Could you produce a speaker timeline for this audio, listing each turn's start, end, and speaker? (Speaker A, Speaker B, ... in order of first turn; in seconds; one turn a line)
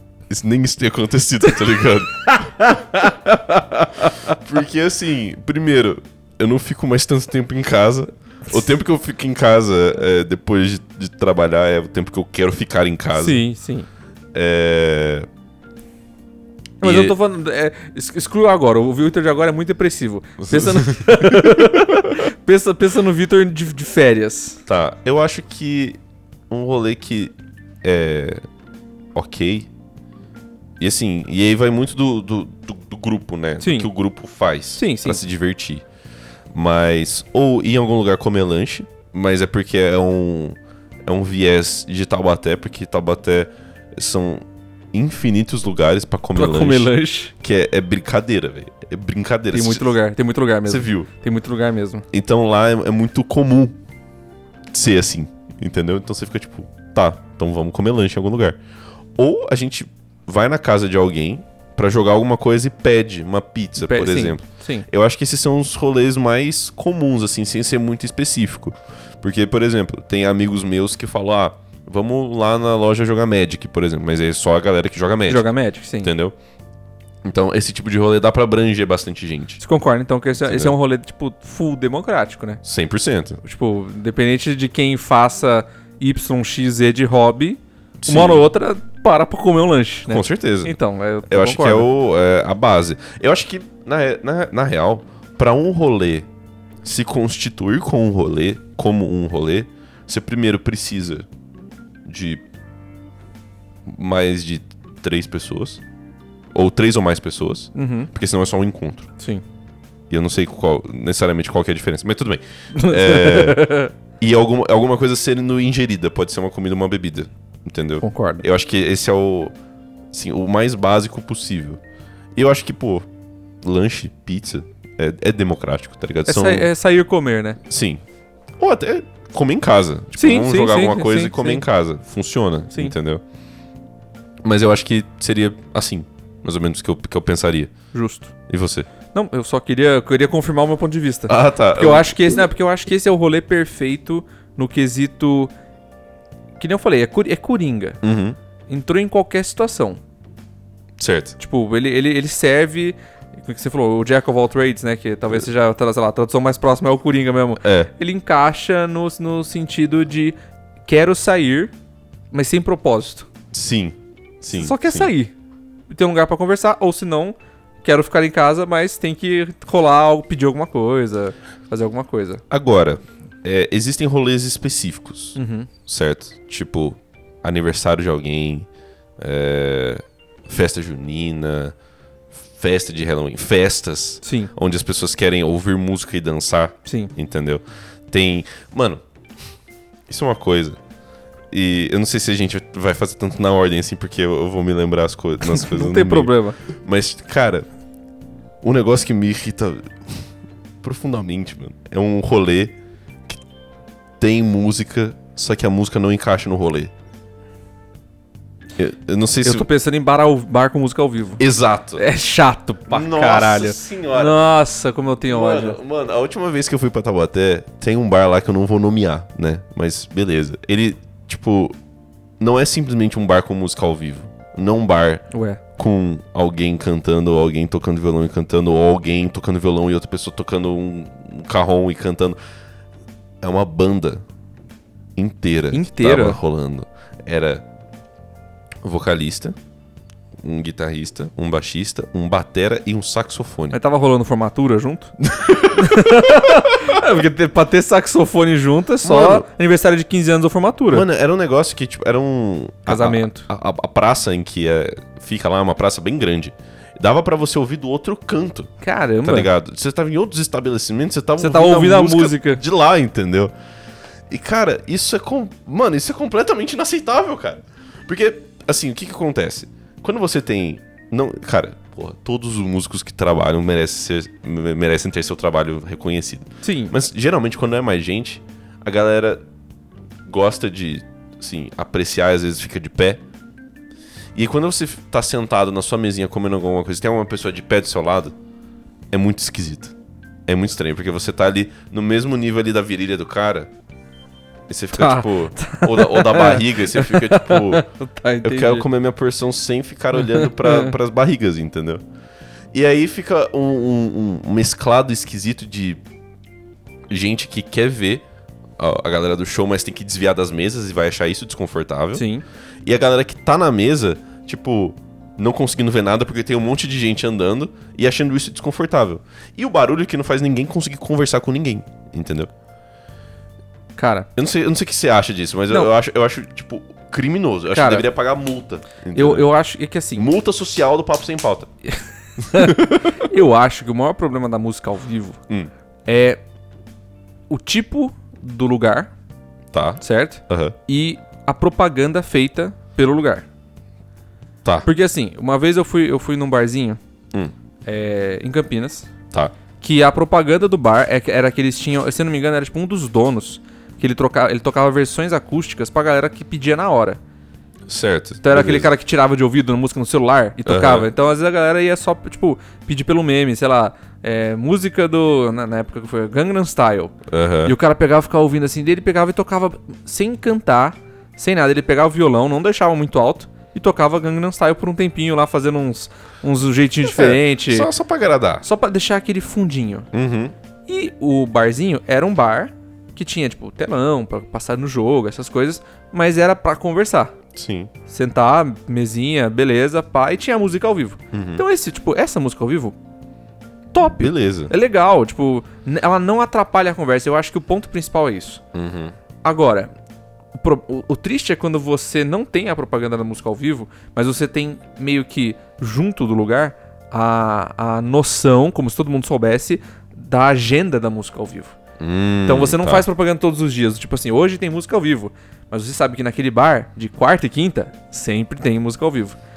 Speaker A: 0.3-2.8
Speaker B: 1.4-4.4
Speaker A: 4.3-13.4
Speaker B: 13.1-13.9
Speaker A: 14.3-15.3
Speaker B: 16.8-24.6
Speaker A: 16.8-17.1
Speaker A: 20.5-22.1
Speaker A: 24.7-26.0
Speaker A: 26.5-28.4
Speaker A: 29.1-29.7
Speaker A: 30.8-35.8
Speaker B: 33.6-33.9
Speaker B: 34.8-35.2
Speaker A: 36.5-50.0
Speaker B: 46.3-47.3
Speaker B: 49.5-52.0
Speaker A: 50.6-51.1
Speaker A: 52.1-53.8
Speaker A: 54.7-58.6
Speaker A: 59.1-76.3
Speaker B: 63.8-64.9
Speaker B: 75.3-76.1
Speaker A: 77.2-79.6
Speaker B: 79.6-82.6
Speaker A: 80.4-80.7
Speaker A: 82.6-83.4
Speaker B: 83.4-91.9
Speaker A: 88.0-88.5
Speaker A: 90.1-96.3
Speaker A: 96.8-101.3
Speaker A: 102.0-102.4
Speaker A: 103.8-105.8
Speaker A: 106.5-109.1
Speaker B: 107.7-108.1
Speaker A: 110.1-119.5
Speaker B: 112.7-113.9
Speaker B: 118.0-118.4
Speaker A: 120.1-121.8
Speaker A: 122.3-123.1
Speaker A: 123.6-126.7
Speaker B: 126.3-127.6
Speaker A: 127.7-128.0
Speaker A: 128.6-133.2
Speaker B: 130.2-131.6
Speaker A: 134.4-137.7
Speaker B: 137.9-138.3
Speaker A: 138.5-138.9
Speaker B: 139.1-145.5
Speaker A: 141.3-142.3
Speaker B: 146.6-148.0
Speaker A: 148.0-148.4
Speaker B: 148.7-150.0
Speaker A: 151.0-151.4
Speaker B: 151.4-160.3
Speaker A: 157.6-157.9
Speaker B: 160.9-161.7
Speaker B: 162.3-163.3
Speaker A: 163.5-165.1
Speaker B: 164.5-165.3
Speaker B: 165.9-172.4
Speaker A: 172.5-178.7
Speaker B: 175.3-175.7
Speaker A: 179.2-181.7
Speaker A: 182.3-189.0
Speaker B: 184.2-184.5
Speaker B: 186.8-187.1
Speaker A: 190.1-190.8
Speaker A: 191.5-197.7
Speaker B: 195.4-196.6
Speaker A: 198.6-200.3
Speaker A: 200.8-202.7
Speaker A: 204.2-206.9
Speaker A: 208.8-209.7
Speaker B: 209.4-211.4
Speaker A: 211.4-212.0
Speaker B: 212.0-215.8
Speaker A: 212.9-214.4
Speaker A: 215.2-221.7
Speaker A: 222.4-225.2
Speaker B: 225.3-225.6
Speaker A: 225.8-232.4
Speaker A: 233.4-234.2
Speaker A: 235.2-237.6
Speaker B: 235.7-236.4
Speaker A: 238.8-239.6
Speaker A: 240.4-243.8
Speaker B: 243.7-245.1
Speaker A: 245.2-246.2
Speaker B: 245.7-251.1
Speaker A: 249.0-249.5
Speaker A: 250.9-258.7
Speaker B: 252.9-253.5
Speaker B: 258.8-259.5
Speaker A: 259.2-263.5
Speaker B: 261.4-262.6
Speaker A: 264.3-279.4
Speaker B: 276.6-276.9
Speaker A: 280.2-283.2
Speaker A: 284.3-288.3
Speaker A: 289.1-289.9
Speaker A: 290.5-293.7
Speaker A: 294.7-297.9
Speaker B: 294.9-298.9
Speaker A: 298.4-302.0
Speaker B: 300.2-300.9
Speaker A: 302.7-306.0
Speaker A: 307.1-308.2
Speaker A: 308.8-312.2
Speaker B: 312.1-312.4
Speaker A: 312.8-322.5
Speaker B: 324.0-324.3
Speaker A: 324.4-329.5
Speaker B: 327.7-328.1
Speaker B: 329.1-330.3
Speaker A: 330.1-331.7
Speaker B: 331.9-335.4
Speaker A: 332.5-333.1
Speaker B: 336.1-336.4
Speaker B: 337.5-339.1
Speaker A: 339.7-340.8
Speaker B: 340.0-343.4
Speaker B: 344.8-347.0
Speaker B: 347.9-349.1
Speaker B: 349.8-357.2
Speaker A: 357.9-358.9
Speaker B: 358.4-367.1
Speaker A: 360.6-361.1
Speaker A: 367.3-367.8
Speaker B: 367.6-377.9
Speaker A: 377.0-378.6
Speaker B: 378.6-380.1
Speaker A: 380.1-380.5
Speaker B: 380.9-387.3
Speaker A: 387.5-387.9
Speaker B: 388.1-392.9
Speaker A: 391.3-391.6
Speaker B: 393.9-398.6
Speaker A: 394.0-394.7
Speaker A: 398.7-399.1
Speaker B: 399.4-399.9
Speaker B: 400.5-411.8
Speaker A: 412.0-413.1
Speaker B: 412.4-419.4